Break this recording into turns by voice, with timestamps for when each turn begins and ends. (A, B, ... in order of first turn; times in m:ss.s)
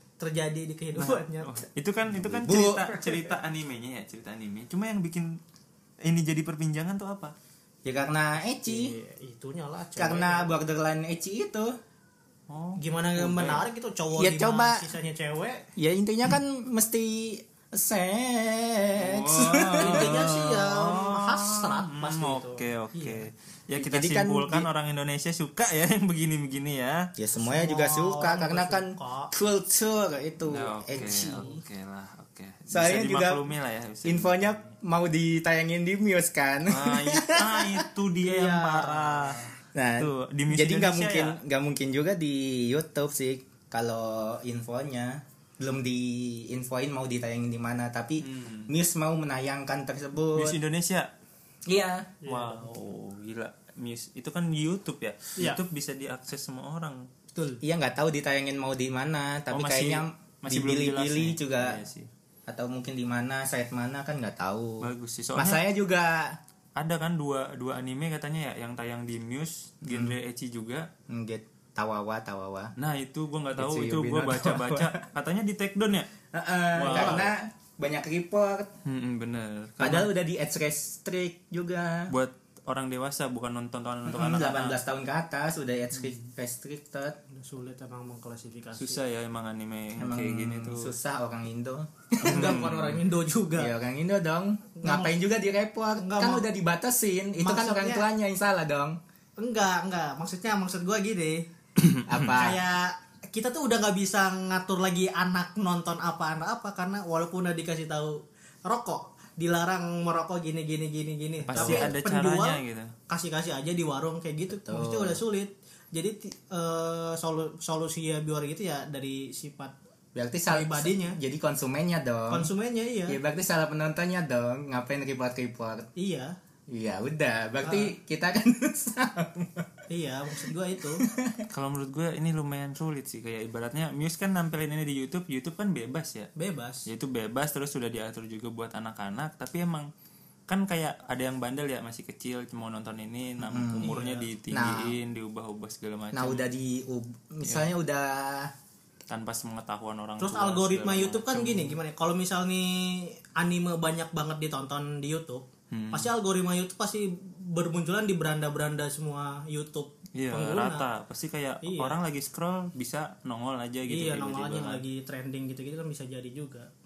0:00.2-0:01.6 A
0:01.0-0:05.4 B
0:02.2-0:03.3 C
0:06.0-0:07.4 B
0:07.8-0:08.9 C
0:08.7-0:10.6 A
0:10.0-0:11.8 C
0:12.5-0:13.6 B
0:12.8-0:15.7 A
0:14.2-0:14.9 C
0:15.8-0:20.3 C
0:19.0-0:27.1 B
0:19.8-0:23.3 A
0:23.8-0:24.7 C
0:27.2-0:31.4 C
0:27.4-0:29.3 A
0:30.5-0:34.6 B
0:31.0-0:31.6 A
0:32.7-0:33.4 C
0:34.0-0:37.8 C
0:36.7-0:41.4 B
0:38.2-0:39.5 A
0:39.7-0:50.6 C
0:48.2-0:48.7 B
0:50.4-0:51.1 B
0:51.7-0:52.2 C
0:52.2-0:52.7 A
0:52.3-0:57.0 B
0:57.4-0:57.6 A
0:57.6-1:01.8 C
0:59.5-1:02.1 B
1:02.5-1:06.4 C
1:04.8-1:05.6 B
1:06.8-1:10.9 B
1:09.9-1:10.2 C
1:11.1-1:12.7 C
1:12.8-1:16.1 B
1:13.6-1:15.0 C
1:16.3-1:18.8 C
1:16.8-1:17.3 B
1:16.9-1:17.2 A
1:18.8-1:20.1 B
1:19.8-1:22.1 C
1:22.1-1:24.8 B
1:24.1-1:27.2 C
1:27.3-1:29.0 A
1:28.8-1:30.9 B
1:30.0-1:32.8 C
1:32.2-1:33.7 A
1:32.3-1:33.0 B
1:33.6-1:39.0 C
1:34.8-1:35.1 A
1:36.0-1:36.5 A
1:37.4-1:38.0 A
1:39.4-1:41.4 A
1:41.8-1:42.4 B
1:42.1-1:42.6 C
1:42.3-1:59.8 A
1:51.5-1:52.9 B
1:51.5-1:52.0 C
1:54.5-1:55.2 C
2:00.2-2:02.5 C
2:00.5-2:01.2 A
2:02.3-2:03.2 A
2:03.1-2:05.9 C
2:06.0-2:06.3 A
2:06.7-2:09.7 C
2:07.6-2:07.9 A
2:09.9-2:11.0 A
2:11.0-2:11.4 C
2:11.5-2:16.3 B
2:16.4-2:16.9 A
2:16.9-2:19.9 B
2:20.5-2:26.4 B
2:23.4-2:24.0 C
2:23.8-2:24.3 A
2:24.5-2:25.0 C
2:26.1-2:28.5 C
2:29.1-2:31.8 B
2:30.2-2:40.9 A
2:35.7-2:36.1 B
2:40.2-2:44.8 B
2:41.6-2:42.0 A
2:43.9-2:46.7 A